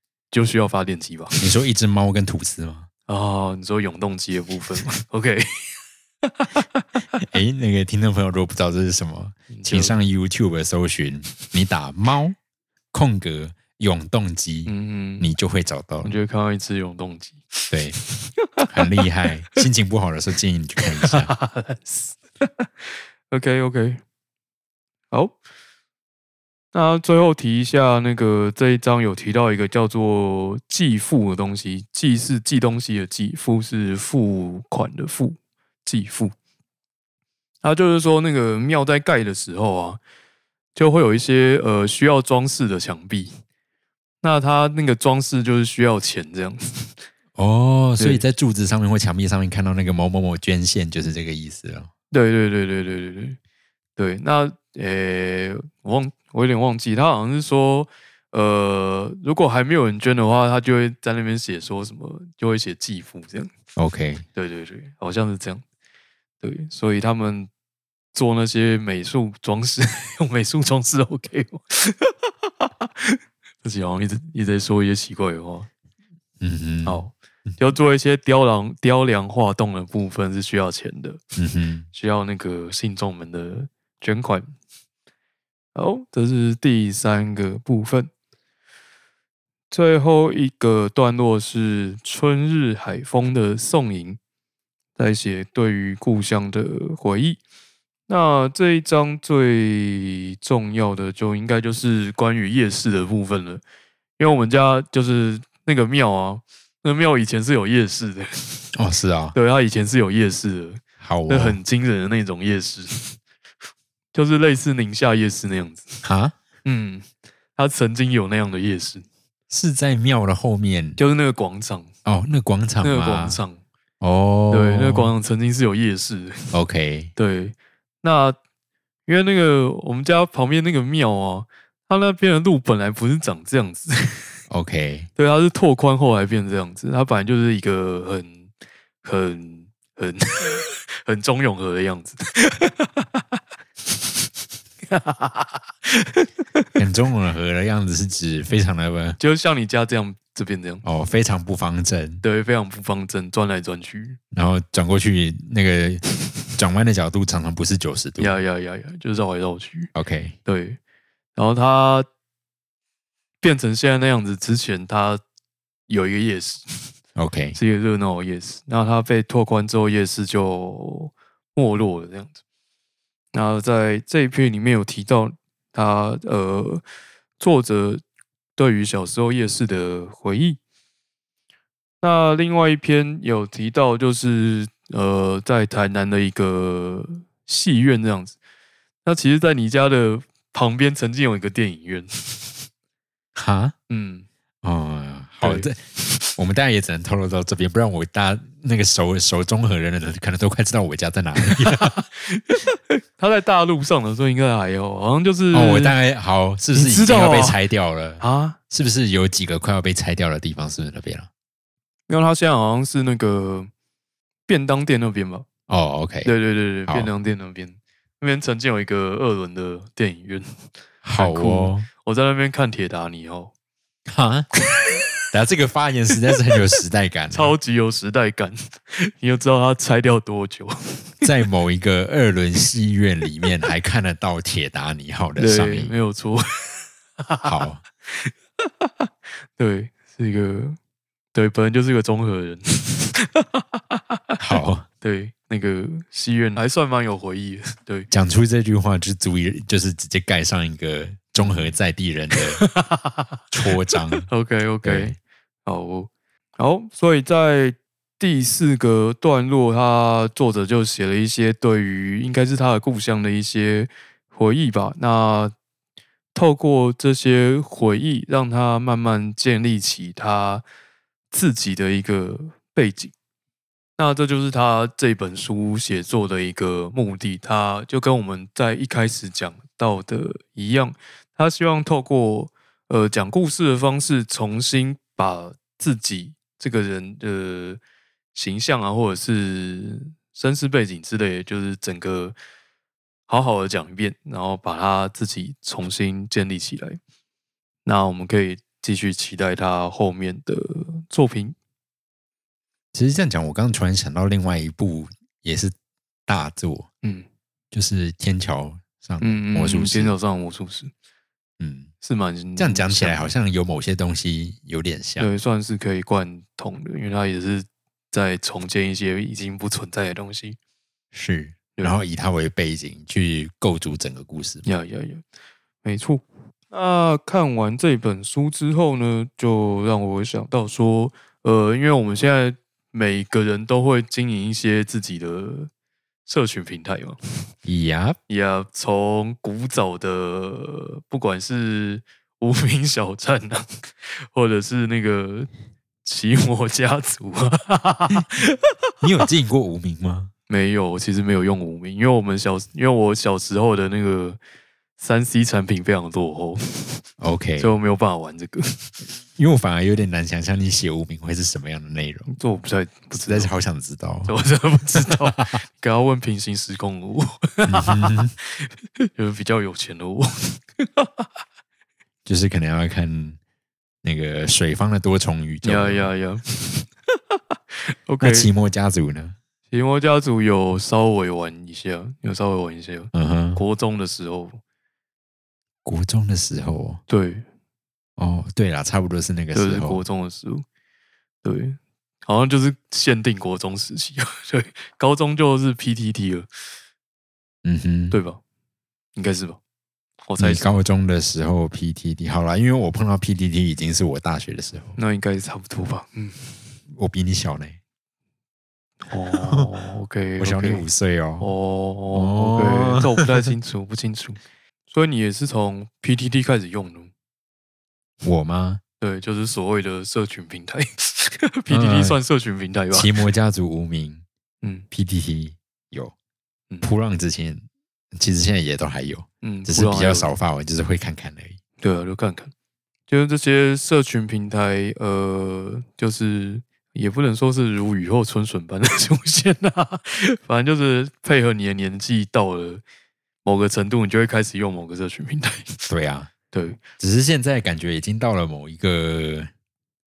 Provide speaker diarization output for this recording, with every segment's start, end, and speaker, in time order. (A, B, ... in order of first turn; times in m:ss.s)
0:00.3-0:01.4 A
0:01.4-0:02.9 B
0:03.1-0:05.7 A
0:06.2-0:06.9 A
0:07.2-0:12.4 B
0:09.5-0:10.0 A
0:12.9-0:16.1 B
0:14.7-0:15.3 A
0:16.0-0:19.0 A
0:17.7-0:18.0 B
0:18.6-0:21.3 B
0:21.0-0:24.0 A
0:25.1-0:25.4 A
0:26.7-0:36.3 A
0:37.6-0:40.0 A
0:40.8-0:43.4 A
0:44.2-0:47.0 A
0:47.4-0:51.9 B
0:48.0-0:48.2 A
0:52.1-0:53.4 A
0:54.0-1:03.5 A
1:03.8-1:04.2 B
1:04.4-1:05.6 A
1:06.4-1:07.5 A
1:08.1-1:15.7 A
1:16.4-1:17.6 B
1:16.8-1:21.2 A
1:21.4-1:21.9 B
1:21.9-1:24.5 A
1:25.8-1:28.1 A
1:29.7-1:34.2 A
1:35.0-1:37.4 A
1:38.1-1:43.6 A
1:44.2-1:48.7 A
1:48.7-1:49.4 B
1:49.3-1:53.2 A
1:51.0-1:51.6 B
1:54.1-1:56.0 A
1:56.0-1:56.4 B
1:56.6-1:59.0 A
1:59.5-2:01.0 B
2:01.0-2:01.9 A
2:02.0-2:03.4 B
2:02.8-2:03.6 A
2:04.0-2:05.1 B
2:04.5-2:06.5 A
2:06.5-2:07.1 B
2:07.2-2:08.4 A
2:09.1-2:14.3 A
2:14.5-2:15.1 B
2:15.2-2:18.5 A
2:19.0-2:23.2 A
2:24.9-2:26.7 A
2:26.8-2:29.2 B
2:29.2-2:30.8 A
2:30.8-2:32.2 B
2:32.2-2:34.2 A
2:34.3-2:38.3 B
2:38.2-2:39.9 A
2:40.0-2:40.4 B
2:40.4-2:40.8 A
2:41.4-2:42.1 A
2:43.4-2:45.2 A
2:45.9-2:46.9 A
2:47.2-2:47.6 B
2:47.6-2:52.4 A
2:53.3-2:56.8 A
2:57.4-2:58.0 A
2:58.6-3:00.6 A
3:02.0-3:08.4 A
3:09.0-3:12.7 A
3:13.4-3:13.7 B
3:13.9-3:14.3 A
3:14.6-3:15.8 B
3:15.4-3:16.3 A
3:16.4-3:22.0 B
3:21.4-3:26.0 A
3:25.5-3:31.3 B
3:26.8-3:27.6 A
3:28.2-3:28.6 A
3:32.1-3:33.7 A
3:34.5-3:35.5 A
3:35.7-3:36.3 B
3:36.2-3:40.6 A
3:41.0-3:41.9 B
3:41.2-3:43.5 A
3:44.1-3:44.5 B
3:45.3-3:47.5 B
3:47.3-3:51.3 A
3:51.2-3:55.9 B
3:55.4-3:57.5 A
3:57.4-3:57.8 B
3:58.1-4:00.8 A
4:01.4-4:04.4 A
4:04.4-4:04.9 B
4:05.0-4:08.1 A
4:08.1-4:12.6 B
4:11.4-4:11.7 A
4:12.4-4:13.4 A
4:13.5-4:14.3 B
4:14.3-4:25.5 A
4:14.8-4:15.2 B
4:26.3-4:30.6 A
4:31.3-4:33.1 A
4:34.0-4:47.8 A
4:48.4-4:52.4 A
4:53.3-4:57.0 A
4:57.8-5:01.6 A
5:02.9-5:05.8 B
5:06.3-5:06.9 B
5:07.7-5:10.1 B
5:09.2-5:10.9 A
5:11.6-5:11.9 B
5:12.0-5:13.2 A
5:12.6-5:15.3 B
5:15.2-5:20.6 A
5:21.1-5:24.6 B
5:21.8-5:22.0 A
5:24.6-5:25.2 A
5:25.8-5:35.7 A
5:36.3-5:37.2 A
5:37.6-5:38.2 B
5:38.3-5:45.5 A
5:46.0-5:48.7 A
5:49.0-5:50.3 B
5:50.5-5:54.4 A
5:55.0-5:57.0 A
5:57.2-5:57.7 B
5:57.6-5:58.9 A
5:59.4-6:02.3 B
6:02.3-6:03.5 A
6:03.3-6:04.4 B
6:04.3-6:11.3 A
6:05.0-6:05.4 B
6:07.7-6:08.3 B
6:12.3-6:13.4 B
6:14.0-6:16.1 B
6:15.6-6:16.9 A
6:18.1-6:18.5 A
6:18.2-6:19.4 B
6:19.7-6:24.6 A
6:23.1-6:23.6 B
6:25.8-6:27.0 B
6:27.1-6:27.4 A
6:28.2-6:30.0 B
6:29.5-6:30.6 A
6:31.4-6:36.5 A
6:37.6-6:38.2 B
6:38.1-6:38.4 A
6:39.2-6:39.6 A
6:40.3-6:40.8 A
6:40.4-6:45.0 B
6:45.0-6:46.6 A
6:46.9-6:47.8 B
6:49.0-6:50.8 A
6:49.4-6:49.7 B
6:50.4-6:51.5 B
6:51.4-6:54.4 A
6:52.1-6:53.3 B
6:54.9-6:57.1 A
6:58.2-6:58.8 B
6:59.0-7:03.2 A
7:01.7-7:02.2 B
7:02.9-7:04.2 B
7:04.9-7:06.1 B
7:06.8-7:11.6 B
7:09.4-7:10.3 A
7:11.8-7:12.5 A
7:13.1-7:22.8 A
7:23.4-7:25.8 A
7:25.9-7:26.3 B
7:26.5-7:26.8 A
7:27.0-7:29.5 B